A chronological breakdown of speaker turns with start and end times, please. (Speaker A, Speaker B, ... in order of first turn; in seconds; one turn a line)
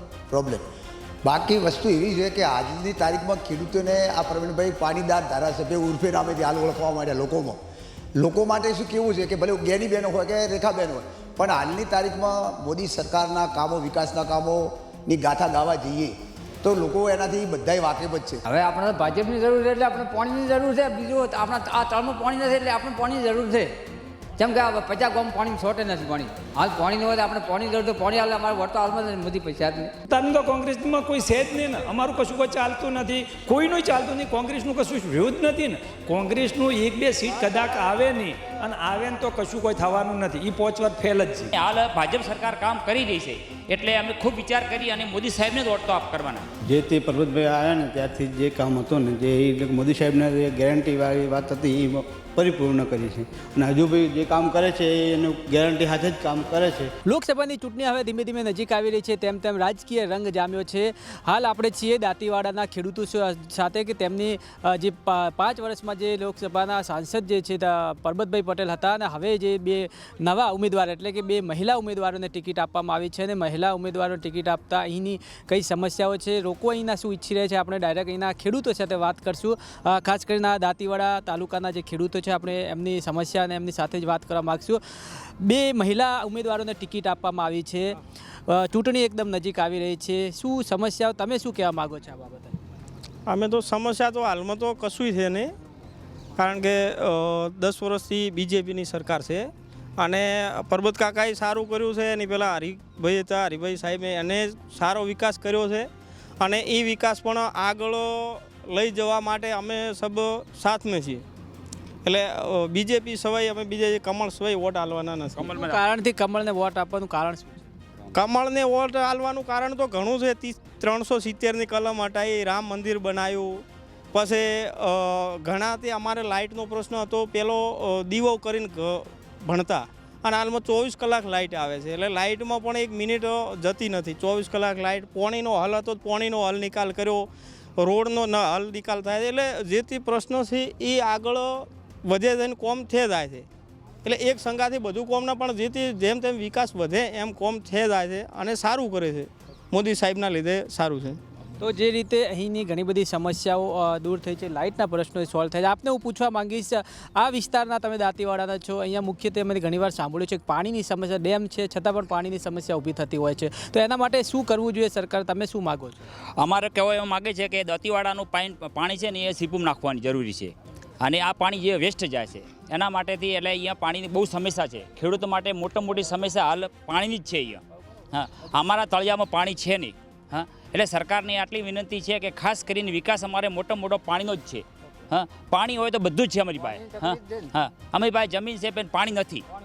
Speaker A: 0.3-0.7
Speaker A: 1.2-7.6
Speaker A: 8.2-18.4
Speaker B: 18.5-23.7
Speaker B: 24.4-29.9
Speaker C: 30.1-41.5
Speaker D: 41.5-46.5
Speaker E: 46.7-56.9
Speaker F: 57.0-92.6
Speaker G: 93.3-95.5
Speaker G: 96.4-105.9
Speaker G: 106.4-111.2
Speaker G: 112.0-115.5
Speaker D: 115.4-115.8
Speaker F: 115.5-117.7
Speaker G: 118.1-143.5
Speaker G: 144.1-151.2
Speaker F: 151.6-166.0
Speaker D: 166.4-189.4